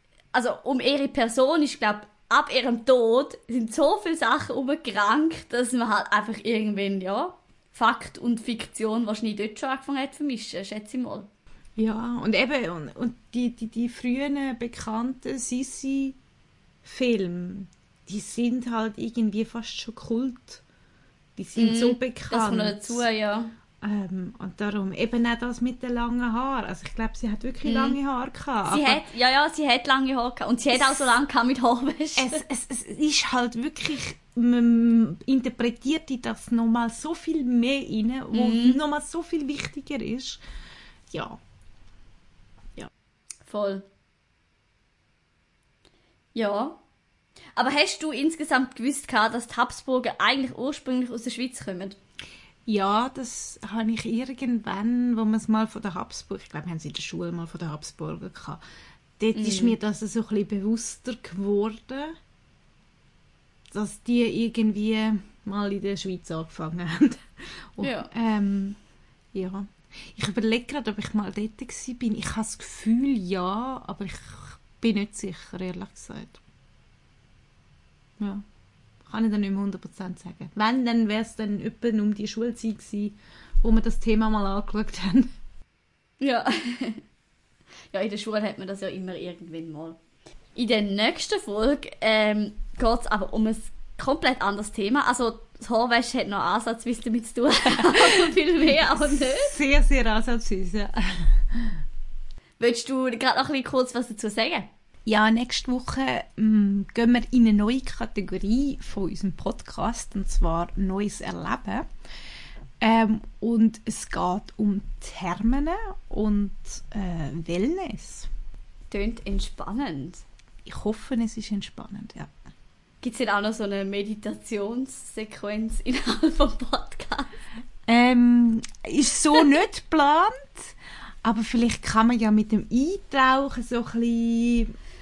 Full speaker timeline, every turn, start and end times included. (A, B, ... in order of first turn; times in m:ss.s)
0:00.3-0:11.3 A
0:11.8-0:16.2 B
0:16.8-0:20.6 B
0:21.4-0:23.0 B
0:21.6-0:23.5 A
0:23.8-0:29.0 B
0:27.6-0:28.0 A
0:28.7-0:32.4 A
0:30.7-0:31.2 B
0:32.2-0:40.4 B
0:38.3-0:38.8 A
0:41.1-0:41.4 B
0:43.5-0:43.8 A
0:46.4-0:46.8 A
0:47.6-0:52.0 A
0:52.7-0:58.6 B
0:59.2-1:02.2 B
0:59.3-0:59.8 A
1:03.7-1:08.8 B
1:07.8-1:08.1 A
1:09.3-1:16.4 B
1:18.2-1:18.4 B
1:19.0-1:25.3 B
1:26.2-1:27.0 A
1:27.9-1:30.0 A
1:30.6-1:39.5 A
1:37.8-1:38.3 B
1:38.8-1:41.8 B
1:42.6-1:44.7 A
1:45.1-1:51.9 B
1:52.8-1:58.3 B
1:58.9-2:00.2 A
2:00.6-2:02.3 B
2:03.0-2:07.3 A
2:07.9-2:14.7 B